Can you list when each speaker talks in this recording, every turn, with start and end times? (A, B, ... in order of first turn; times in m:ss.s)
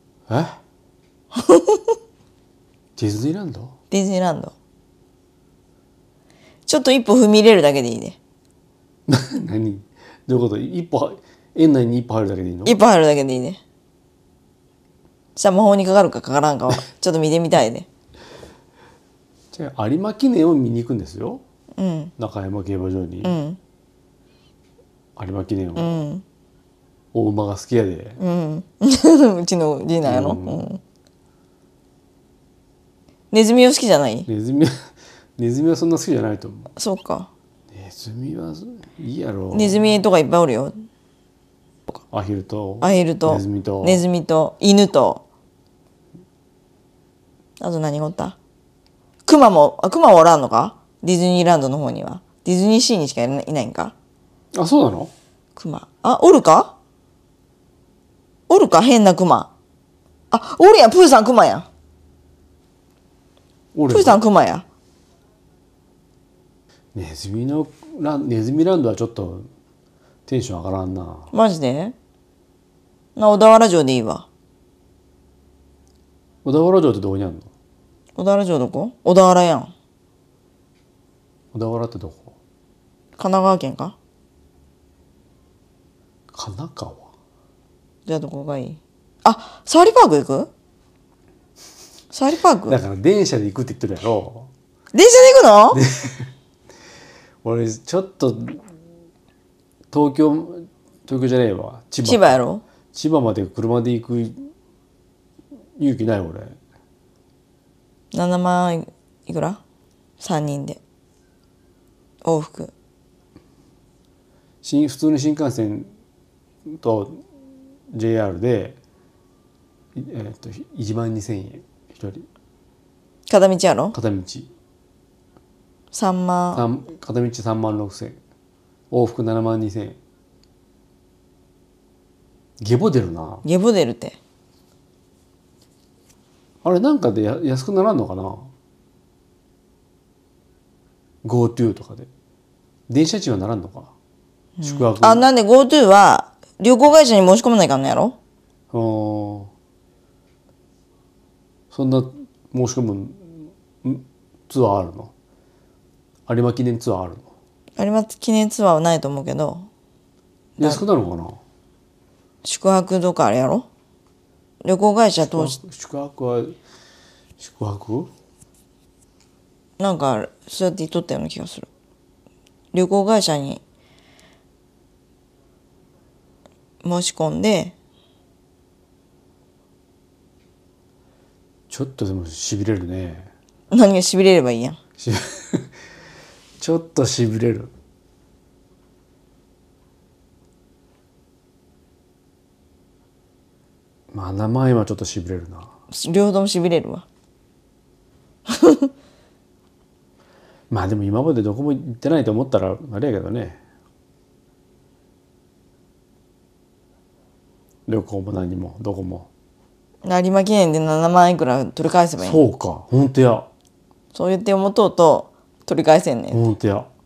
0:00.3-0:00.6 A
0:01.3-0:01.9 B
0:03.0-0:03.7 A
0:03.9-0:04.5 B
0:06.7-0:08.2 B
0:09.1-0:12.8 A
0:12.6-0:13.6 B
0:15.4-0:17.9 B
0:19.5-0:21.4 A
0:21.8-0:22.1 B
0:22.2-0:23.4 A
0:23.2-0:23.6 B
0:25.2-0:26.0 A
0:25.8-0:26.2 B
0:27.1-0:28.2 A
0:28.2-0:30.8 B
0:30.0-0:30.7 A
0:33.3-0:34.3 B
0:34.3-0:34.7 A
0:35.4-0:36.7 A
0:36.8-0:37.3 B
0:37.7-0:39.9 A
0:39.5-0:40.8 B
0:42.1-0:44.0 A
0:42.8-0:45.2 B
0:47.6-0:48.4 B
0:49.2-0:53.9 B
0:54.5-0:55.1 A
0:55.6-0:56.8 B
0:58.5-0:59.5 B
1:00.3-1:01.7 B
1:03.7-1:04.2 A
1:03.9-1:04.6 B
1:06.9-1:09.5 A
1:10.3-1:11.3 A
1:11.3-1:11.9 B
1:13.2-1:14.3 B
1:16.4-1:17.5 A
1:18.2-1:19.7 B
1:21.5-1:22.3 A
1:23.2-1:24.0 B
1:26.3-1:27.1 A
1:28.0-1:30.5 B
1:32.1-1:32.8 B
1:32.7-1:34.5 A
1:34.9-1:35.8 B
1:35.7-1:36.3 A
1:37.4-1:38.6 A
1:39.9-1:42.4 A
1:42.0-1:42.6 B
1:42.9-1:44.5 A
1:45.8-1:46.6 A
1:48.1-1:49.6 B
1:50.2-1:50.8 B
1:52.2-1:52.7 B
1:54.6-1:55.9 A
1:56.7-1:57.2 A
1:57.9-1:58.8 A
1:59.9-2:02.3 A
2:03.3-2:04.0 B
2:03.9-2:04.5 A
2:05.9-2:06.6 B
2:06.5-2:08.2 A
2:08.9-2:10.0 A
2:12.6-2:13.4 A
2:13.4-2:14.2 B
2:16.6-2:18.5 A
2:21.2-2:22.1 A
2:22.9-2:23.9 A
2:24.6-2:28.2 B
2:24.6-2:25.3 A
2:28.7-2:29.5 A
2:31.7-2:35.1 A
2:36.3-2:37.3 A
2:37.8-2:39.7 B
2:40.6-2:41.4 A
2:42.4-2:43.6 B
2:44.6-2:45.6 B
2:45.3-2:46.6 A
2:47.4-2:48.1 A
2:49.8-2:51.7 B
2:52.7-2:53.6 B
2:56.8-2:57.7 B
3:01.7-3:03.3 A
3:03.7-3:04.8 B
3:05.0-3:05.7 A
3:06.6-3:07.7 A
3:14.1-3:15.7 A
3:15.9-3:17.0 B
3:18.5-3:18.9 B
3:20.7-3:23.6 A
3:27.9-3:29.3 A
3:30.0-3:32.4 B
3:32.2-3:33.5 A
3:34.1-3:36.4 B
3:36.3-3:36.9 A